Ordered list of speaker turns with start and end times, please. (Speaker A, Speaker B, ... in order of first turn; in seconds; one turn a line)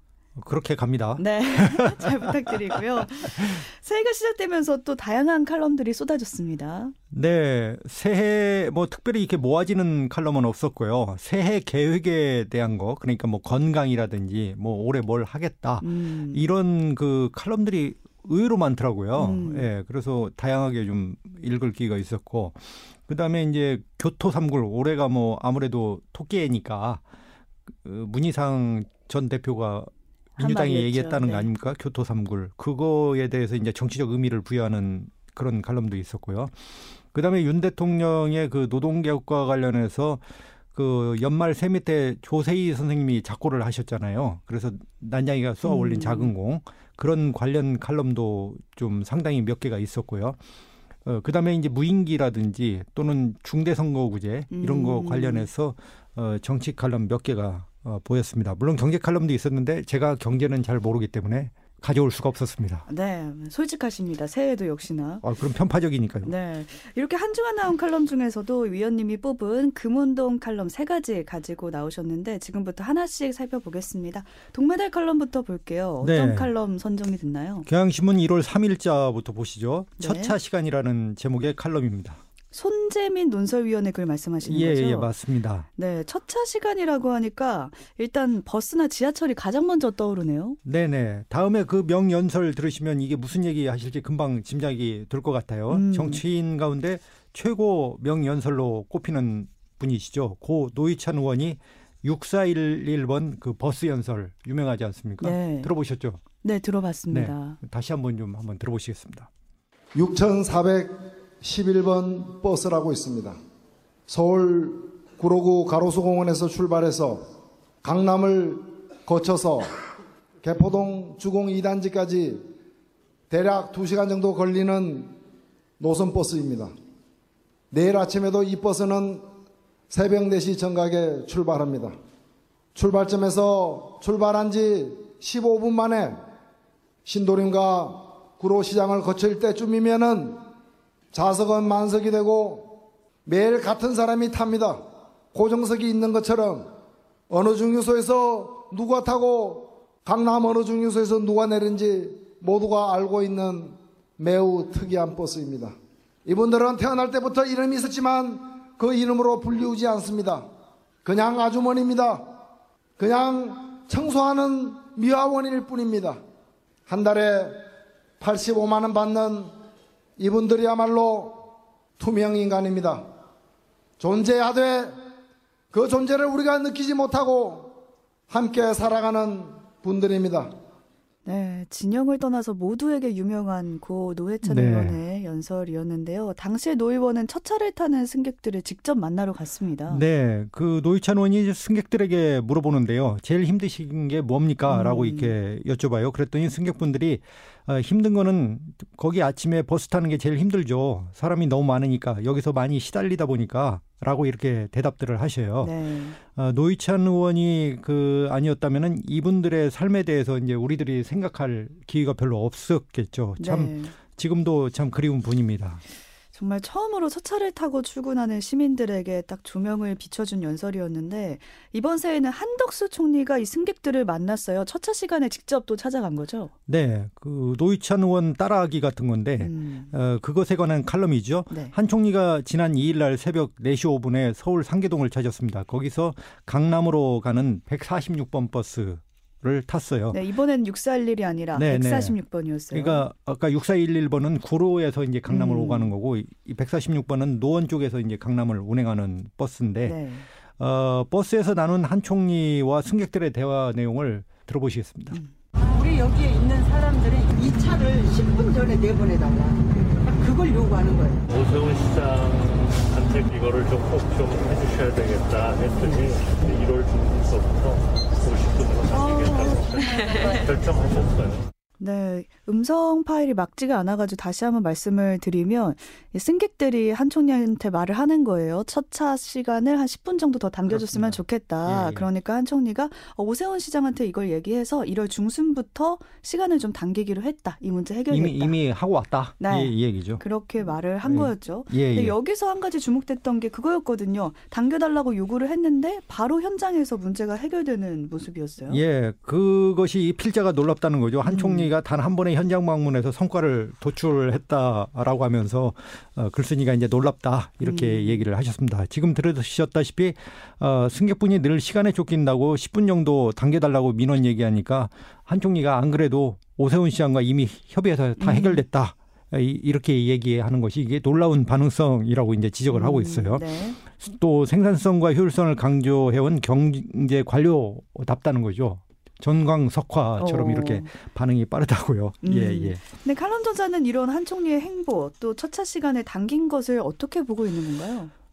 Speaker A: 0.3-2.3
Speaker B: 1.2-6.9
Speaker A: 3.0-3.5
Speaker A: 7.1-27.0
Speaker B: 15.8-16.4
Speaker B: 19.2-19.7
Speaker A: 27.8-36.5
Speaker B: 30.4-31.5
Speaker A: 37.1-40.2
Speaker A: 40.7-50.4
Speaker B: 45.6-46.3
Speaker A: 51.0-62.9
Speaker B: 54.5-55.5
Speaker B: 62.9-65.2
Speaker A: 65.2-66.3
Speaker B: 66.2-77.7
Speaker A: 76.0-76.5
Speaker A: 77.7-82.2
Speaker B: 80.0-80.3
Speaker B: 82.5-85.1
Speaker A: 84.4-85.7
Speaker B: 85.8-90.6
Speaker A: 90.6-106.2
Speaker B: 95.7-96.2
Speaker B: 105.2-105.7
Speaker B: 106.4-107.6
Speaker A: 107.1-109.3
Speaker C: 109.9-113.4
Speaker C: 114.1-117.2
Speaker C: 117.8-119.7
Speaker C: 120.4-122.4
Speaker C: 123.3-125.1
Speaker C: 125.8-126.7
Speaker C: 127.7-129.2
Speaker C: 129.9-131.9
Speaker C: 132.7-136.2
Speaker C: 137.0-140.4
Speaker C: 141.1-144.8
Speaker C: 145.3-146.7
Speaker C: 147.3-155.7
Speaker C: 156.2-160.4
Speaker C: 161.0-162.2
Speaker C: 163.0-166.2
Speaker C: 166.9-167.6
Speaker C: 168.2-169.5
Speaker C: 170.2-171.4
Speaker C: 172.0-173.0
Speaker C: 174.0-174.9
Speaker C: 175.7-177.7
Speaker C: 178.3-180.5
Speaker B: 181.2-190.0
Speaker A: 184.4-185.0
Speaker A: 189.9-205.7
Speaker B: 194.7-195.3
Speaker B: 205.6-206.2
Speaker A: 206.3-215.8
Speaker B: 213.4-213.9
Speaker B: 216.3-226.5
Speaker A: 226.7-240.2
Speaker B: 229.4-229.9
Speaker B: 231.5-231.7
Speaker B: 240.1-243.0
Speaker A: 241.5-242.2
Speaker A: 242.7-250.0
Speaker B: 245.3-245.9
Speaker B: 249.8-250.3
Speaker A: 250.6-255.2
Speaker D: 255.6-261.3
Speaker E: 261.3-271.5
Speaker B: 268.9-270.3
Speaker D: 270.1-270.4
Speaker B: 271.8-288.6
Speaker A: 280.7-282.1
Speaker A: 288.1-290.2
Speaker B: 289.4-298.8
Speaker A: 291.0-292.1
Speaker A: 298.7-332.8
Speaker B: 301.2-301.7
Speaker B: 307.6-308.2
Speaker B: 318.2-318.6
Speaker B: 322.7-323.8
Speaker B: 330.2-330.9
Speaker B: 332.2-338.1